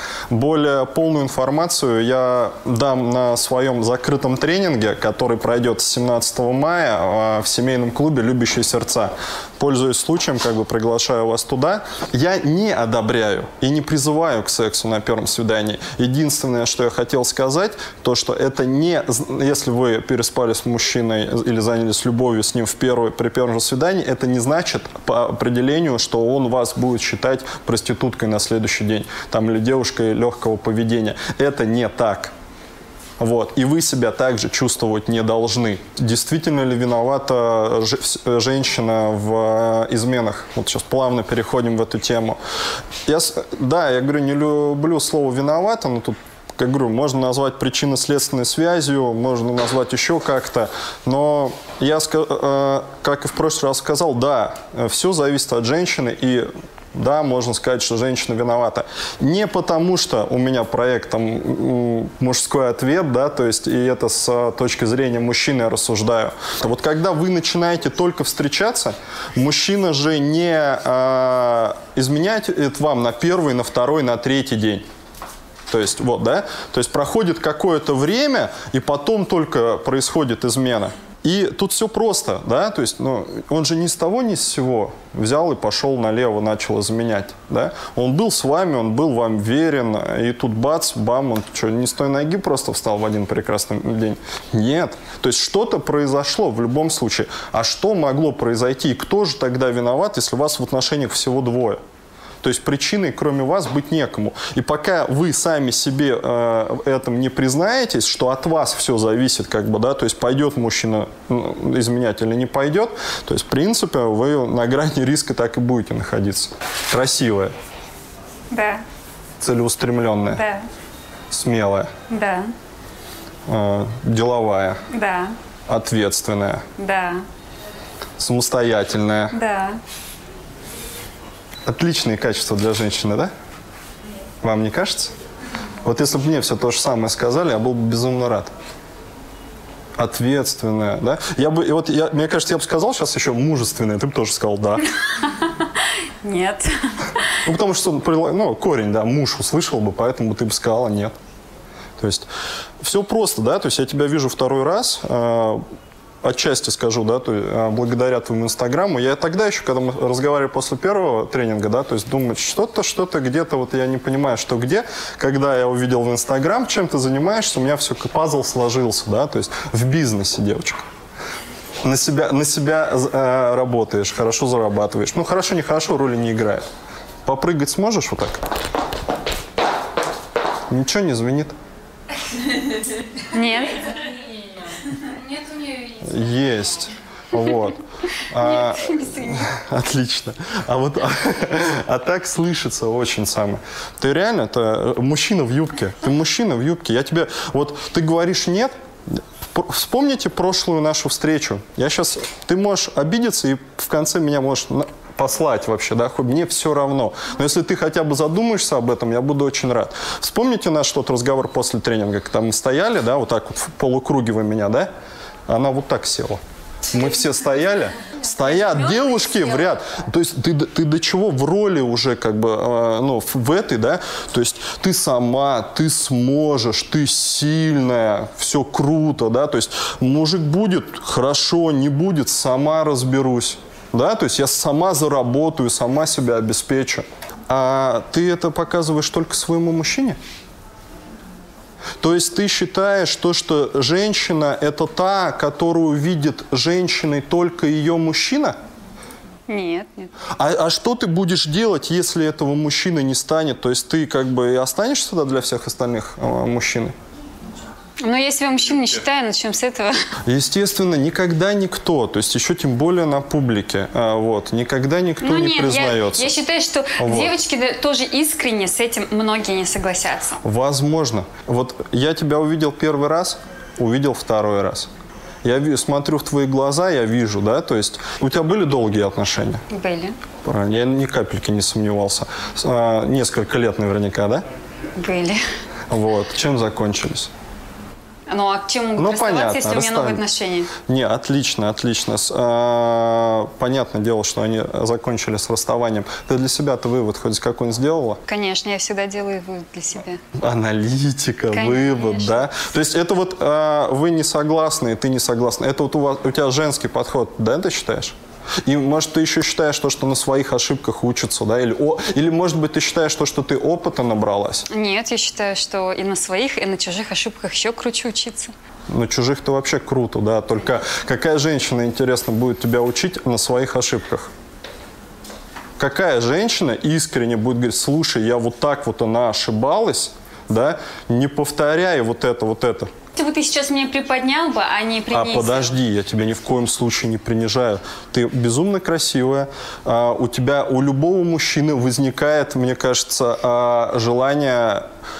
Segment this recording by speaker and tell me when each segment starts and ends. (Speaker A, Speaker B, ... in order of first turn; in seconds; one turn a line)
Speaker A: 0.3-32.3
Speaker A: 33.2-42.4
Speaker A: 43.1-74.8
Speaker A: 75.7-101.8
Speaker A: 102.4-117.5
Speaker B: 118.5-118.8
Speaker A: 119.4-120.4
Speaker B: 120.3-120.7
Speaker A: 121.3-121.9
Speaker B: 122.1-122.5
Speaker A: 123.5-124.8
Speaker B: 124.9-125.3
Speaker A: 125.7-126.6
Speaker B: 126.8-127.2
Speaker A: 128.2-129.3
Speaker B: 129.3-129.8
Speaker A: 131.7-133.3
Speaker A: 134.4-135.1
Speaker A: 135.8-138.5
Speaker A: 140.0-144.8
Speaker B: 145.4-145.7
Speaker B: 146.2-146.7
Speaker A: 147.5-151.2
Speaker A: 152.0-152.3
Speaker A: 152.8-155.6
Speaker A: 156.2-170.8
Speaker A: 171.8-176.6
Speaker A: 177.2-178.4
Speaker A: 180.7-181.5
Speaker B: 183.3-183.9
Speaker A: 185.8-198.7
Speaker B: 188.4-189.5
Speaker A: 199.5-214.9
Speaker A: 215.5-240.2
Speaker A: 242.0-248.6
Speaker B: 249.5-250.1
Speaker A: 250.4-256.9
Speaker B: 258.0-259.9
Speaker A: 260.2-266.3
Speaker B: 265.2-270.4
Speaker A: 267.0-267.4
Speaker A: 270.4-274.9
Speaker A: 275.4-279.6
Speaker B: 279.7-280.1
Speaker A: 280.4-284.4
Speaker B: 284.9-285.4
Speaker A: 285.9-287.3
Speaker B: 288.3-290.7
Speaker A: 289.0-290.2
Speaker A: 290.9-298.2
Speaker B: 298.3-300.2
Speaker A: 300.4-314.6
Speaker B: 301.5-302.5
Speaker B: 314.7-318.5
Speaker A: 318.9-324.3
Speaker A: 325.8-332.9
Speaker B: 333.1-335.7
Speaker A: 335.1-344.9